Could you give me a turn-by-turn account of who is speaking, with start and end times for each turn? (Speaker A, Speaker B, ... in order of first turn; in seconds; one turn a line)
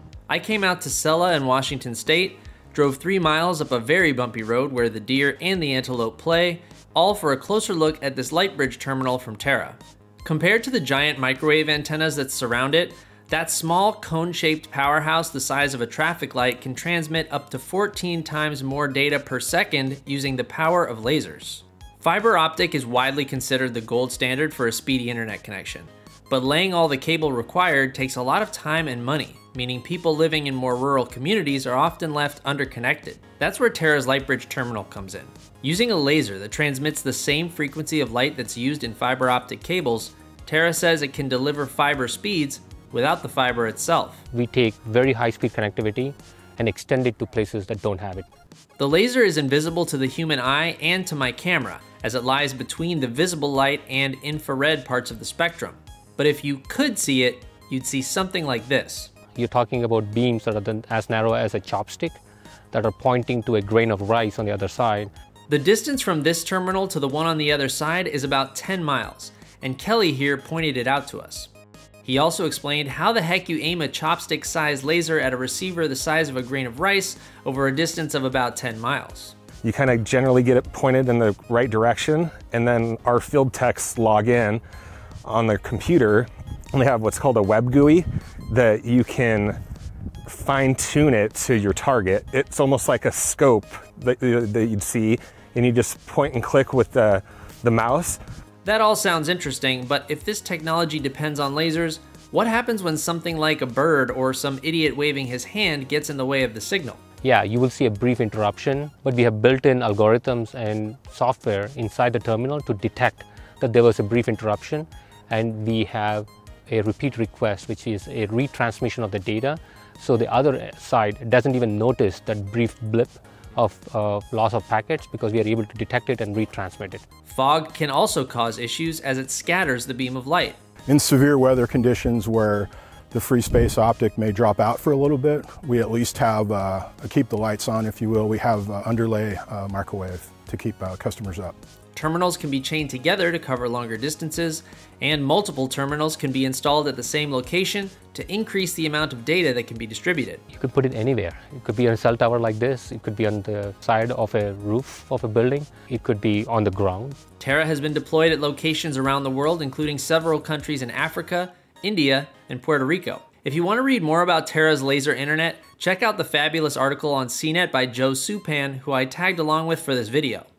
Speaker A: 0.3-44.2
Speaker B: 44.3-48.2
Speaker A: 48.8-59.1
Speaker B: 59.3-62.2
Speaker B: 62.7-65.1
Speaker A: 65.5-71.5
Speaker A: 72.0-79.3
Speaker C: 79.6-84.6
Speaker C: 85.2-89.6
Speaker C: 90.3-98.2
Speaker A: 98.6-107.0
Speaker B: 107.2-127.0
Speaker A: 127.2-130.6
Speaker D: 130.9-141.5
Speaker A: 141.9-150.4
Speaker B: 150.5-157.2
Speaker A: 157.4-170.5